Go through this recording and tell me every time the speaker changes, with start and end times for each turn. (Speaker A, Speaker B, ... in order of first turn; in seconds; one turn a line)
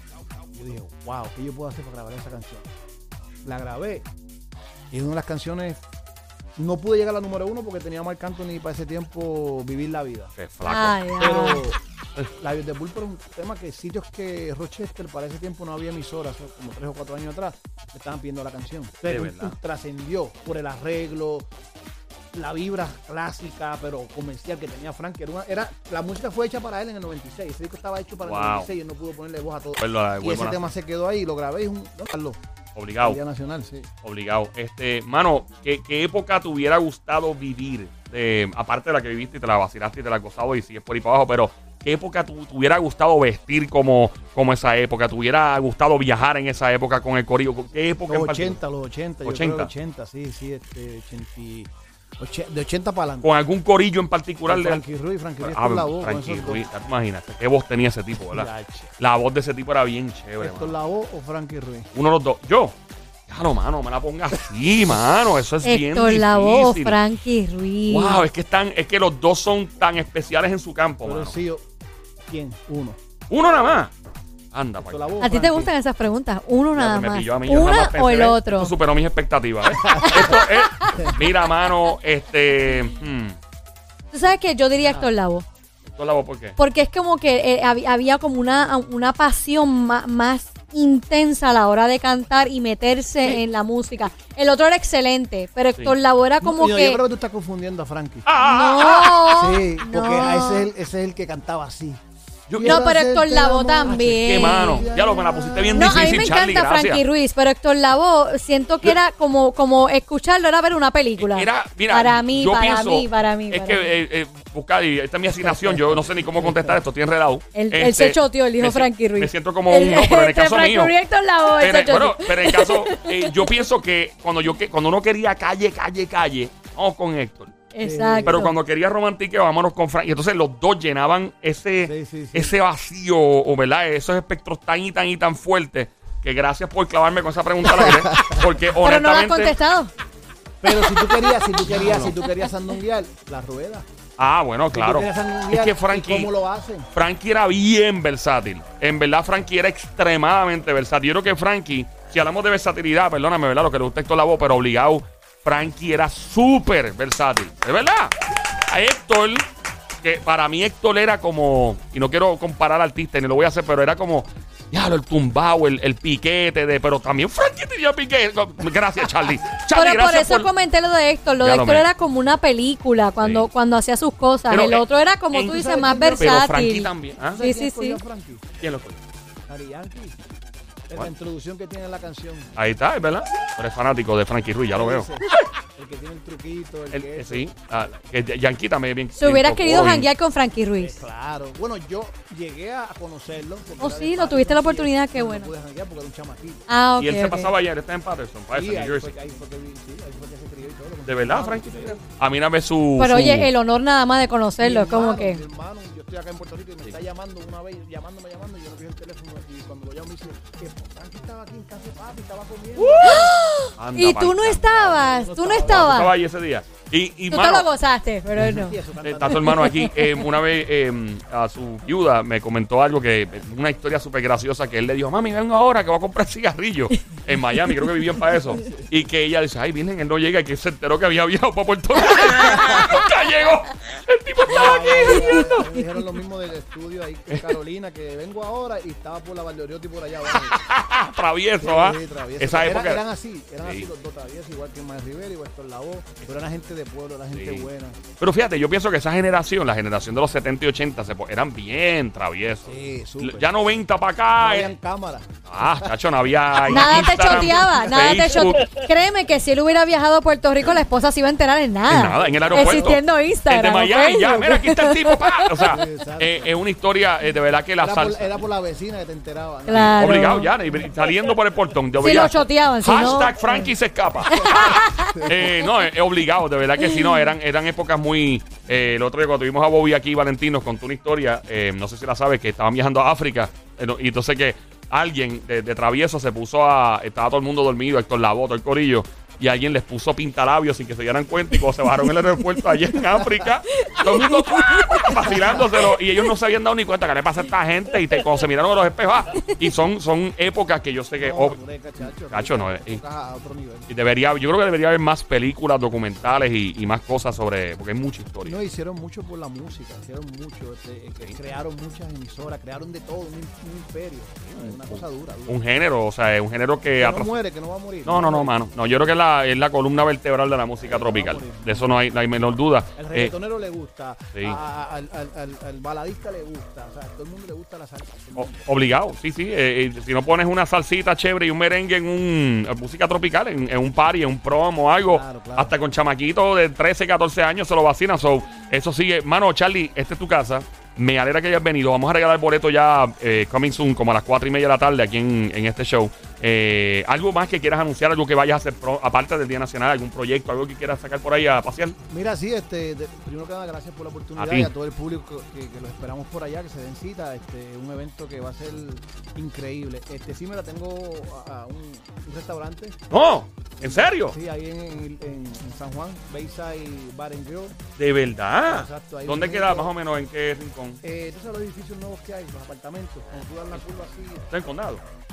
Speaker A: 0.5-2.7
Speaker A: 3.4-4.1
Speaker A: 4.9-5.8
Speaker A: 6.6-10.3
Speaker B: 10.4-11.0
Speaker C: 10.7-11.6
Speaker A: 11.2-11.8
Speaker A: 12.3-21.5
Speaker B: 19.1-19.6
Speaker A: 22.3-32.4
Speaker B: 28.2-28.7
Speaker B: 29.8-30.6
Speaker B: 32.8-33.2
Speaker A: 33.0-33.9
Speaker B: 34.0-48.6
Speaker A: 48.1-53.3
Speaker B: 49.2-49.7
Speaker B: 53.2-54.8
Speaker A: 54.5-56.7
Speaker B: 55.4-60.8
Speaker A: 58.3-58.9
Speaker A: 60.4-61.9
Speaker B: 61.9-62.8
Speaker B: 63.3-67.0
Speaker C: 65.6-68.2
Speaker B: 67.9-71.3
Speaker A: 71.0-71.7
Speaker A: 72.3-73.0
Speaker B: 73.3-73.9
Speaker B: 74.5-75.3
Speaker A: 74.8-75.7
Speaker C: 75.2-78.7
Speaker B: 76.7-83.4
Speaker A: 79.8-80.4
Speaker C: 80.0-81.1
Speaker C: 84.1-85.5
Speaker B: 85.9-86.6
Speaker C: 86.6-97.0
Speaker A: 96.4-98.2
Speaker B: 98.3-99.3
Speaker C: 98.4-100.7
Speaker A: 99.3-102.0
Speaker B: 102.5-102.8
Speaker A: 102.5-106.4
Speaker C: 102.6-104.9
Speaker B: 103.8-107.0
Speaker C: 105.8-113.9
Speaker B: 111.2-120.9
Speaker A: 115.4-116.8
Speaker C: 117.5-123.5
Speaker B: 121.6-127.5
Speaker C: 127.7-128.5
Speaker A: 127.8-128.5
Speaker B: 128.2-139.6
Speaker A: 131.8-132.5
Speaker A: 137.6-138.5
Speaker C: 138.8-139.9
Speaker A: 140.6-143.9
Speaker B: 141.7-142.1
Speaker B: 144.2-146.3
Speaker A: 144.7-146.9
Speaker B: 146.9-158.2
Speaker B: 158.7-159.5
Speaker B: 160.0-170.5
Speaker C: 169.7-178.0
Speaker B: 171.4-171.9
Speaker B: 173.2-173.5
Speaker B: 174.5-177.4
Speaker A: 175.5-176.4
Speaker A: 177.3-178.4
Speaker B: 178.6-179.0
Speaker A: 179.5-180.2
Speaker A: 180.9-182.5
Speaker B: 182.6-185.4
Speaker A: 184.7-187.5
Speaker B: 186.9-190.1
Speaker C: 189.2-191.0
Speaker A: 190.8-196.7
Speaker C: 193.8-195.5
Speaker C: 196.7-197.5
Speaker B: 197.0-199.1
Speaker A: 198.5-202.0
Speaker B: 201.1-203.5
Speaker C: 203.0-205.4
Speaker A: 204.6-213.4
Speaker B: 212.8-215.1
Speaker C: 213.0-216.2
Speaker A: 214.9-216.1
Speaker B: 215.6-217.7
Speaker C: 217.3-220.2
Speaker A: 218.4-219.7
Speaker B: 219.0-235.6
Speaker C: 227.5-228.2
Speaker A: 228.5-228.9
Speaker A: 232.5-233.0
Speaker A: 234.4-240.6
Speaker C: 235.1-235.6
Speaker B: 237.3-237.6
Speaker B: 240.3-243.0
Speaker A: 241.6-248.0
Speaker B: 243.6-243.9
Speaker B: 247.3-247.7
Speaker B: 248.2-254.7
Speaker A: 252.7-253.8
Speaker A: 254.4-255.9
Speaker B: 255.5-258.8
Speaker A: 256.7-257.7
Speaker C: 256.7-265.8
Speaker B: 261.9-268.4
Speaker A: 262.1-263.0
Speaker A: 265.7-266.6
Speaker A: 267.8-270.9
Speaker C: 269.7-270.5
Speaker B: 269.7-303.0
Speaker C: 272.0-273.7
Speaker C: 274.3-275.7
Speaker A: 274.4-275.5
Speaker C: 276.8-277.3
Speaker C: 292.0-292.6
Speaker C: 293.8-295.9
Speaker A: 301.2-303.9
Speaker B: 303.9-308.6
Speaker A: 308.4-315.6
Speaker B: 314.5-317.4
Speaker A: 317.0-318.6
Speaker B: 318.1-323.3
Speaker A: 320.8-322.0
Speaker A: 323.0-328.6
Speaker B: 324.3-324.6
Speaker B: 328.4-352.0
Speaker A: 335.1-335.8
Speaker A: 352.1-363.0
Speaker B: 354.4-354.7
Speaker B: 363.1-364.4
Speaker A: 363.8-367.8
Speaker B: 368.0-371.0
Speaker A: 368.6-369.9
Speaker A: 371.0-374.5
Speaker B: 374.5-375.0